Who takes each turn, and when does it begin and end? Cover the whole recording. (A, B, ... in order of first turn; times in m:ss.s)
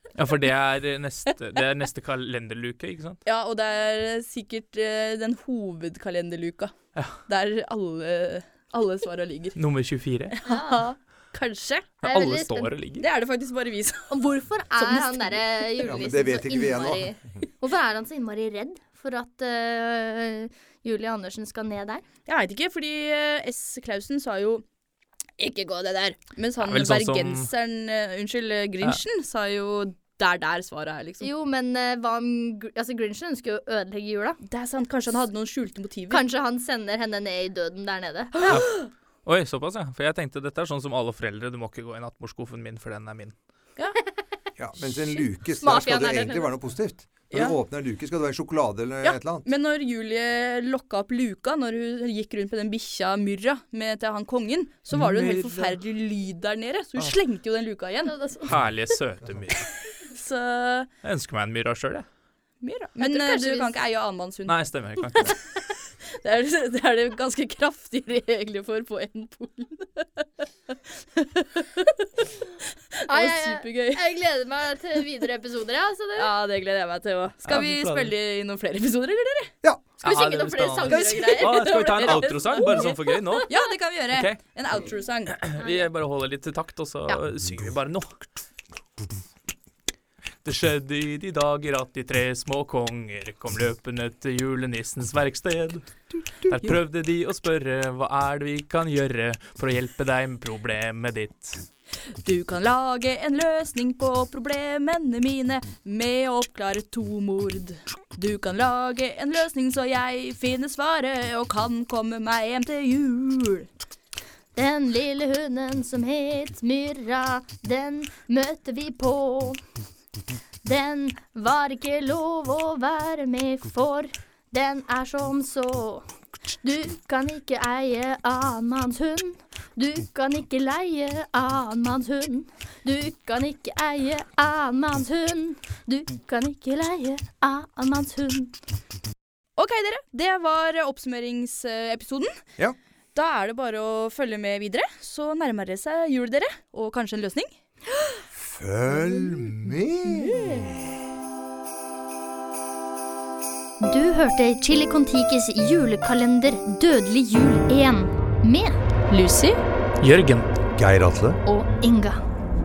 0:00.2-0:03.2 A
0:03.3-0:06.8 B
0:07.3-0:09.6 B
0:09.6-0:10.4 A
0:10.3-0:12.0 B
0:10.4-0:10.9 C
0:12.0-0:12.8 C
0:12.0-0:13.1 A
0:13.0-0:14.1 B
0:14.1-0:22.0 C
0:14.8-0:15.4 B
0:15.8-0:17.4 D
0:22.3-0:24.6 B
0:25.4-0:26.2 C
0:26.3-0:31.3 B
0:26.6-0:27.5 A
0:31.2-0:34.4 C
0:34.4-0:36.2 B
0:36.1-0:38.6 C
0:38.5-0:43.3 A
0:44.6-0:49.5 D
0:44.8-0:45.2 B
0:45.6-0:46.5 C
0:47.3-0:47.6 B
0:49.0-0:58.2 B
0:54.9-0:55.8 A
0:58.0-0:58.6 C
0:58.4-0:59.7 A
0:59.9-1:00.9 B
1:01.0-1:02.1 A
1:02.6-1:04.6 B
1:03.0-1:03.8 C
1:04.5-1:05.4 A
1:05.3-1:14.0 B
1:13.1-1:16.3 C
1:16.2-1:19.5 B
1:17.4-1:18.1 A
1:20.0-1:22.2 C
1:20.0-1:23.5 A
1:20.8-1:25.4 B
1:24.1-1:24.4 A
1:25.3-1:28.3 A
1:25.6-1:25.9 C
1:30.4-1:35.9 A
1:36.4-1:41.7 A
1:42.1-1:53.7 B
1:54.5-1:59.6 C
2:00.6-2:06.1 C
2:06.6-2:18.6 C
2:19.6-2:22.4 B
2:23.2-2:27.5 B
2:28.4-2:30.7 D
2:30.2-2:30.6 B
2:33.8-2:38.8 C
2:39.1-2:39.6 B
2:40.0-2:40.5 A
2:40.8-2:41.4 D
2:41.5-2:42.2 C